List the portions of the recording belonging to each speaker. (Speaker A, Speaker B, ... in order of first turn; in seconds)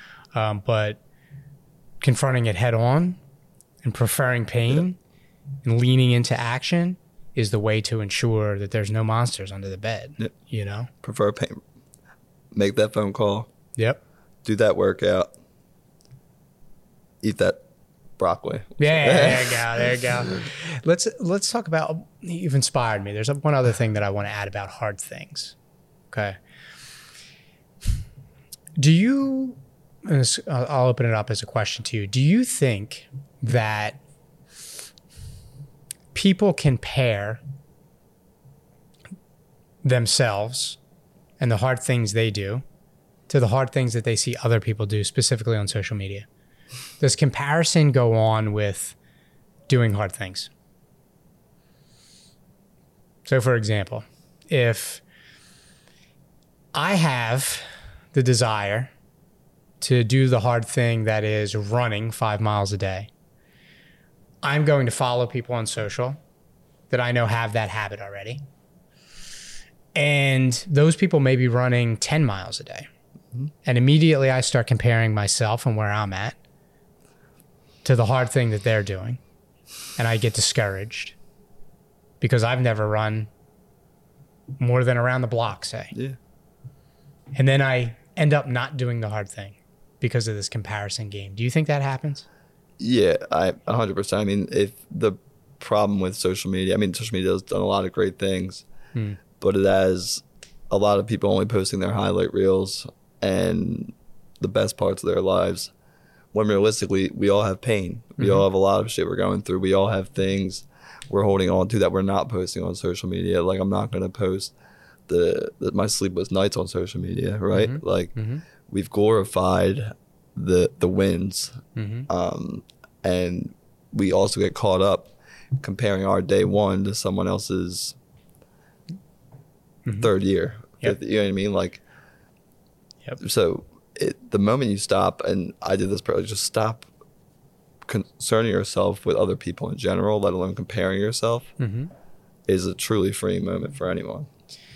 Speaker A: 0.3-1.0, 2.0-3.2, 3.8-5.0, 5.7-10.9, 18.8-25.6, 26.1-26.4, 28.8-34.0, 36.1-37.4, 39.8-40.8, 41.4-42.6, 43.3-46.3, 47.0-49.0, 49.7-50.5, 53.3-55.0, 56.7-58.9, 59.8-63.1, 64.4-66.2, 66.9-68.4, 69.9-72.9, 73.7-76.4, 77.8-79.2, 80.0-81.2, 82.2-83.3, 84.6-85.9, 87.3-92.3, 108.2-108.5, 117.5-118.4, 121.8-122.1, 141.6-141.9
Speaker B: 11.0-11.6, 12.5-13.5, 14.4-15.3, 17.2-17.6, 18.2-20.4, 92.8-98.7, 99.4-105.7, 106.3-114.5, 115.1-118.2, 118.7-128.0, 130.0-131.8, 133.2-136.9, 137.8-141.5, 142.5-144.3